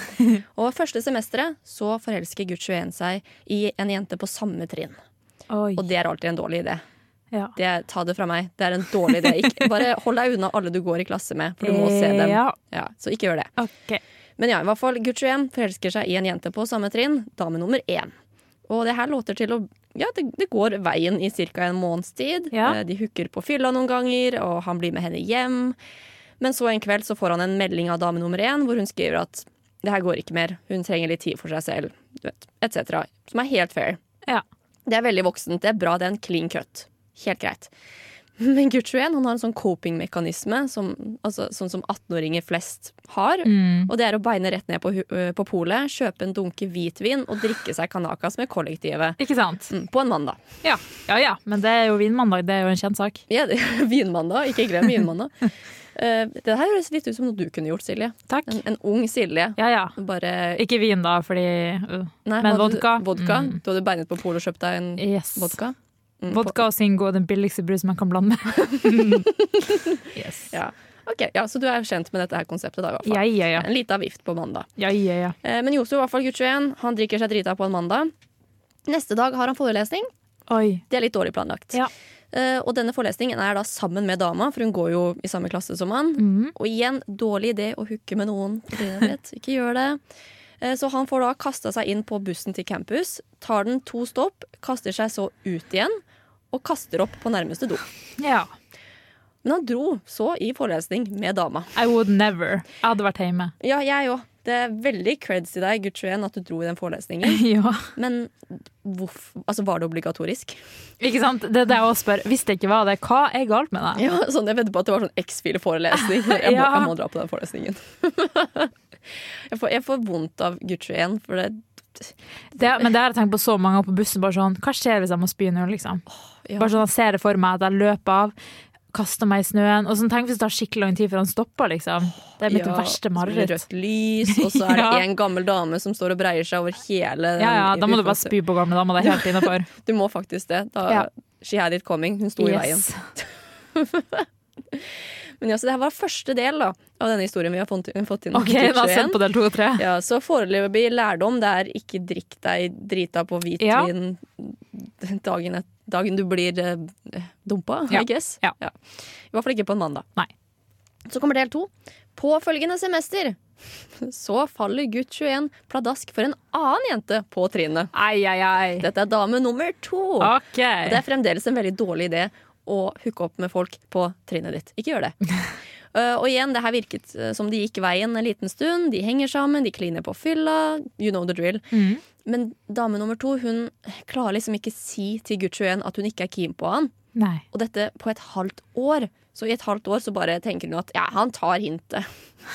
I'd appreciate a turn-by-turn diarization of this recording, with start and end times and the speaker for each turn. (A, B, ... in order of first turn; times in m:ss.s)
0:00.4-0:05.0 A
0:05.5-0:05.8 B
0:05.8-0:06.8 A
0:07.6-0:13.5 A
0:09.2-0:09.7 B
0:11.6-0:12.6 B
0:13.6-0:14.0 B
0:14.4-0:18.1 A
0:18.7-0:25.8 A
0:22.5-0:22.8 B
0:26.4-0:34.0 A
0:34.8-0:37.7 A
0:38.4-0:49.2 A
0:43.4-0:43.9 B
0:49.2-0:49.7 B
0:49.7-0:50.4 A
0:50.6-0:53.2 B
0:53.3-1:00.6 A
0:58.3-0:58.6 B
0:59.6-1:00.0 B
1:00.6-1:03.6 B
1:02.2-1:06.6 A
1:05.0-1:05.6 B
1:06.3-1:09.3 B
1:08.7-1:10.0 A
1:10.1-1:10.5 B
1:10.5-1:14.7 A
1:13.0-1:13.7 B
1:14.8-1:15.3 B
1:15.4-1:18.1 A
1:18.8-1:20.1 A
1:20.5-1:20.8 B
1:20.9-1:30.0 A
1:26.2-1:26.5 B
1:30.6-1:36.0 A
1:36.5-1:37.8 A
1:38.2-1:38.5 B
1:39.4-1:41.7 A
1:41.8-1:43.5 B
1:43.6-1:50.6 A
1:47.2-1:47.8 B
1:51.0-1:54.0 B
1:54.0-1:58.7 A
1:56.0-1:56.9 B
1:59.5-2:02.6 A
2:02.6-2:06.0 B
2:06.4-2:06.7 A
2:06.6-2:08.3 B
2:08.9-2:13.6 B
2:12.4-2:18.3 A
2:14.3-2:15.0 B
2:17.4-2:19.7 B
2:19.0-2:24.9 A
2:22.4-2:23.0 B
2:25.4-2:29.2 A
2:28.3-2:29.8 B
2:29.8-2:38.8 A
2:33.6-2:33.9 B
2:37.9-2:38.5 B
2:39.3-2:40.1 A
2:41.1-2:43.4 A
2:44.0-2:47.9 A
2:47.9-2:48.8 B
2:48.8-2:55.1 A
2:50.2-2:51.0 B
2:55.9-3:01.7 A
3:01.7-3:02.0 B
3:02.2-3:06.9 A
3:07.1-3:07.4 B
3:07.5-3:12.1 A